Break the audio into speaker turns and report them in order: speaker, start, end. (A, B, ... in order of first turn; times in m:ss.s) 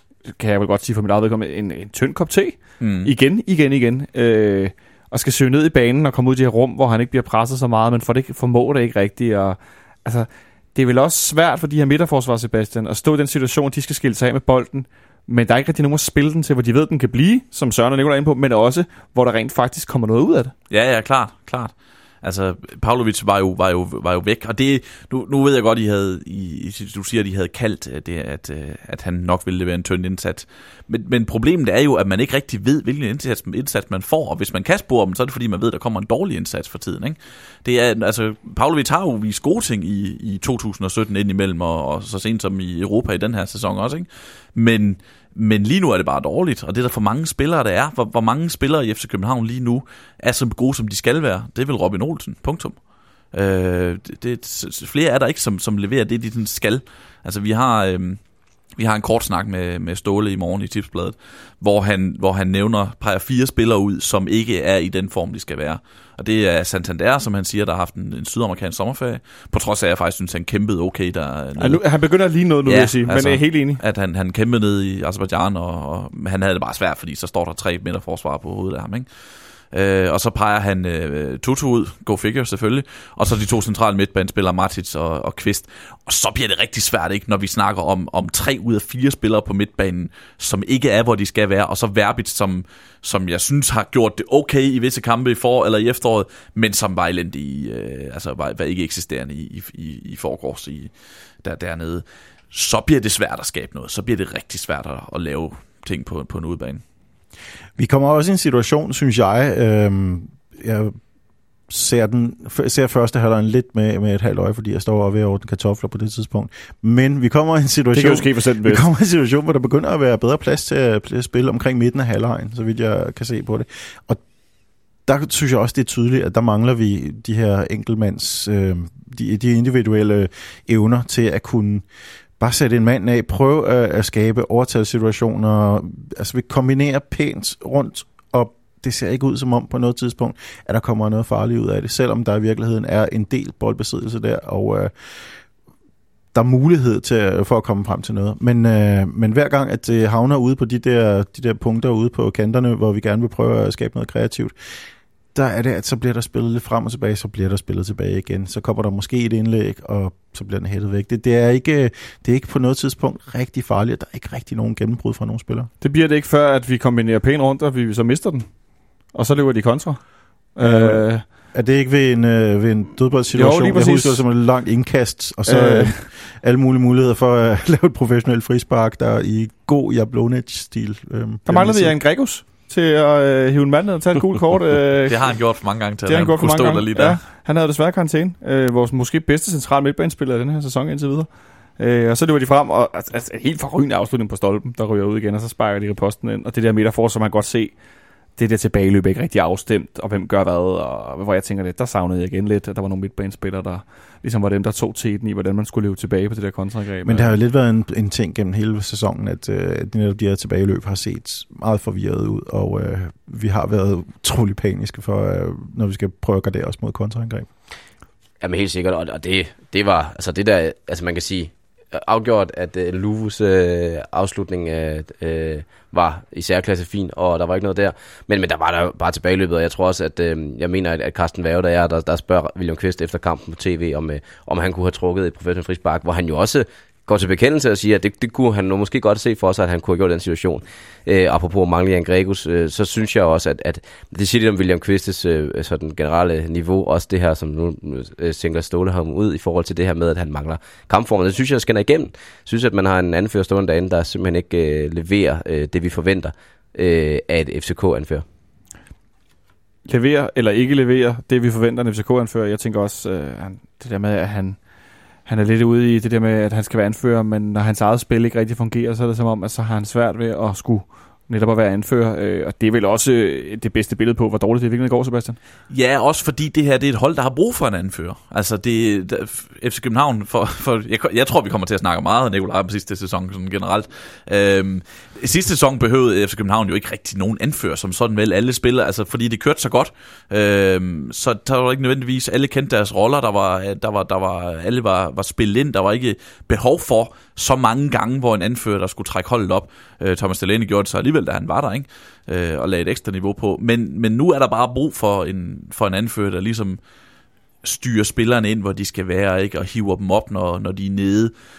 0:00.3-0:20.5 A
0:02.8-0:03.1 B
0:20.7-0:52.8 B
0:53.3-0:58.2 B
0:58.8-1:11.8 B
1:11.6-1:13.8 A
1:12.6-1:19.1 B
1:19.7-1:40.9 B
1:41.4-1:46.8 B
1:47.8-1:51.0 C
1:51.7-2:04.2 C
1:57.9-1:58.8 A
2:05.0-2:11.8 C
2:12.4-2:25.3 C
2:26.3-2:34.5 C
2:35.3-2:45.7 C
2:45.8-2:48.5 A
2:49.1-2:50.0 A
2:50.5-2:51.2 A
2:50.6-3:02.0 C
2:53.3-2:54.2 A
2:55.5-2:56.0 A
3:01.4-3:05.3 A
3:05.1-3:07.2 B
3:06.0-3:17.7 A
3:18.4-3:27.3 A
3:27.0-3:37.5 C
3:38.4-4:18.2 D
4:19.8-4:24.6 A
4:25.2-4:35.4 A
4:35.7-5:06.8 B
5:07.6-5:11.3 B